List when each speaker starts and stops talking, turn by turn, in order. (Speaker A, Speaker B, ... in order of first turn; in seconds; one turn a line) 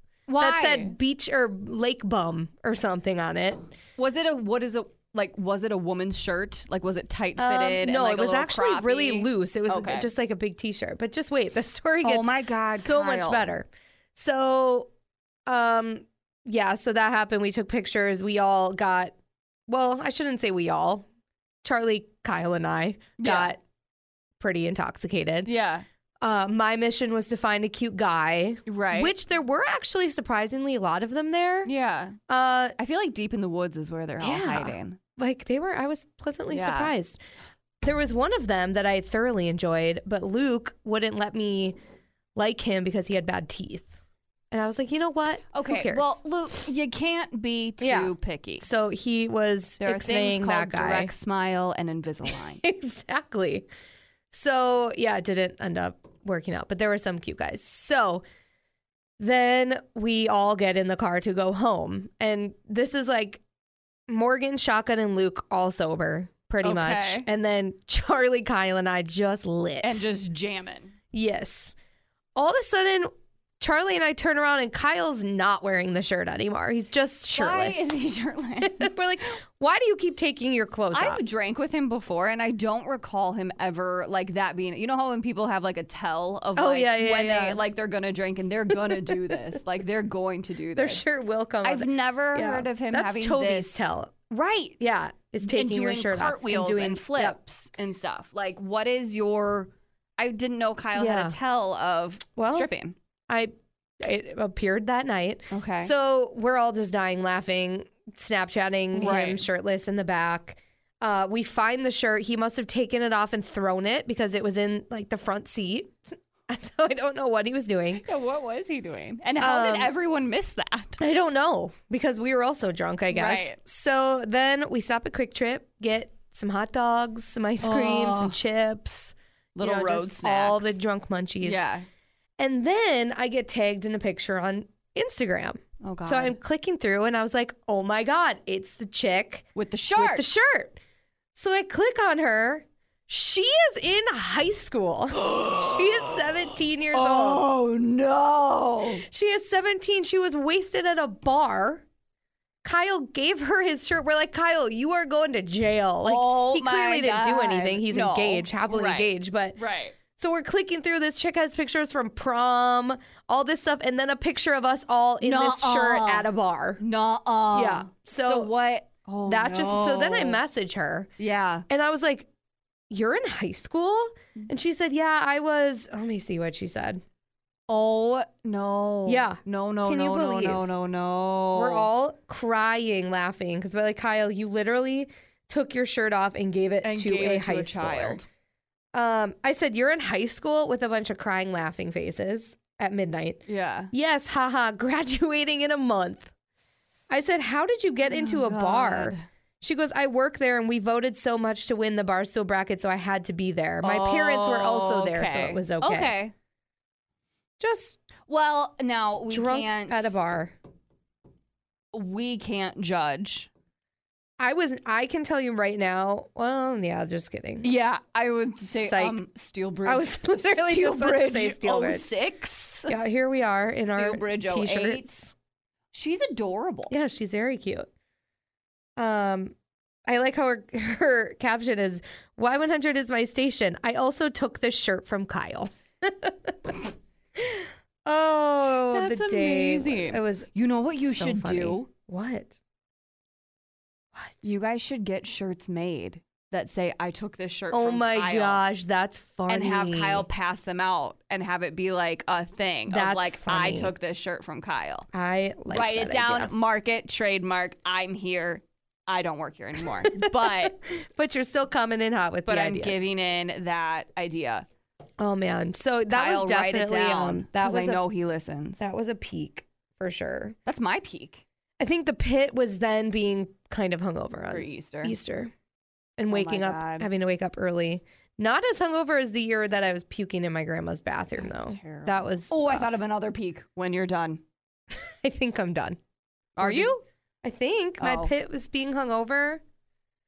Speaker A: 0.3-0.9
Speaker B: 0.4-3.7
Speaker A: 4.0-10.1
Speaker B: 7.4-14.9
Speaker A: 12.0-13.5
Speaker B: 15.5-19.1
Speaker B: 19.7-21.1
Speaker B: 21.6-23.6
Speaker A: 23.2-23.5
Speaker B: 24.4-25.5
Speaker A: 25.4-25.9
Speaker B: 26.2-31.7
Speaker A: 28.7-29.1
Speaker A: 31.6-32.2
Speaker B: 32.3-32.8
Speaker A: 32.8-35.0
Speaker B: 34.2-37.2
Speaker A: 36.5-36.9
Speaker B: 37.8-41.8
Speaker B: 42.4-44.0
Speaker B: 44.5-46.2
Speaker A: 45.5-48.7
Speaker B: 47.8-51.1
Speaker A: 49.8-52.6
Speaker B: 52.3-53.7
Speaker B: 54.3-58.2
Speaker B: 59.2-63.4
Speaker B: 64.1-70.1
Speaker A: 66.6-67.3
Speaker A: 69.8-70.9
Speaker B: 71.1-71.8
Speaker B: 72.3-77.9
Speaker A: 77.3-78.9
Speaker B: 78.6-81.2
Speaker A: 80.9-91.0
Speaker B: 86.6-87.6
Speaker B: 88.7-89.4
Speaker B: 90.8-94.1
Speaker A: 91.6-94.9
Speaker B: 94.8-97.4
Speaker A: 95.4-103.0
Speaker B: 101.0-101.4
Speaker B: 102.4-102.7
Speaker B: 103.3-118.0
Speaker A: 105.5-105.9
Speaker A: 108.9-109.4
Speaker A: 118.0-121.0
Speaker B: 119.4-119.9
Speaker B: 121.0-131.7
Speaker A: 123.1-123.6
Speaker A: 127.6-128.4
Speaker A: 129.6-130.7
Speaker A: 131.4-131.9
Speaker B: 132.4-140.8
Speaker A: 135.8-136.4
Speaker A: 139.6-140.2
Speaker B: 141.3-147.4
Speaker A: 145.2-146.0
Speaker A: 146.9-149.0
Speaker B: 149.1-151.8
Speaker B: 152.6-159.6
Speaker A: 156.0-159.9
Speaker B: 160.2-166.8
Speaker A: 165.2-166.3
Speaker A: 166.8-170.4
Speaker B: 167.5-168.5
Speaker B: 169.3-171.1
Speaker A: 171.2-171.7
Speaker B: 171.7-172.3
Speaker B: 172.9-177.0
Speaker A: 177.7-181.9
Speaker B: 179.1-180.7
Speaker B: 181.6-188.2
Speaker A: 186.8-188.3
Speaker B: 188.9-196.3
Speaker A: 193.5-193.9
Speaker B: 197.1-206.2
Speaker A: 198.1-199.2
Speaker A: 203.8-206.3
Speaker B: 207.6-208.0
Speaker A: 208.3-210.2
Speaker B: 209.3-210.6
Speaker A: 211.9-213.5
Speaker B: 214.4-217.7
Speaker A: 217.6-222.9
Speaker B: 218.8-219.2
Speaker B: 219.8-222.1
Speaker B: 222.9-225.3
Speaker A: 223.9-225.2
Speaker A: 225.9-226.9
Speaker B: 226.9-227.9
Speaker B: 229.0-229.6
Speaker B: 230.1-236.8
Speaker B: 237.4-242.6
Speaker A: 238.9-241.9
Speaker A: 244.4-248.6
Speaker B: 247.7-250.3
Speaker A: 249.5-255.1
Speaker B: 252.9-253.9
Speaker B: 255.1-256.5
Speaker A: 255.7-260.8
Speaker B: 260.1-263.1
Speaker A: 262.5-264.7
Speaker B: 265.2-268.0
Speaker A: 266.1-268.9
Speaker B: 268.8-270.6
Speaker A: 270.7-271.4
Speaker B: 271.8-275.5
Speaker A: 274.5-275.2
Speaker B: 276.2-282.9
Speaker A: 276.3-277.1
Speaker A: 281.4-284.4
Speaker B: 284.9-286.0
Speaker A: 286.6-287.0
Speaker B: 286.6-289.6
Speaker A: 288.0-288.3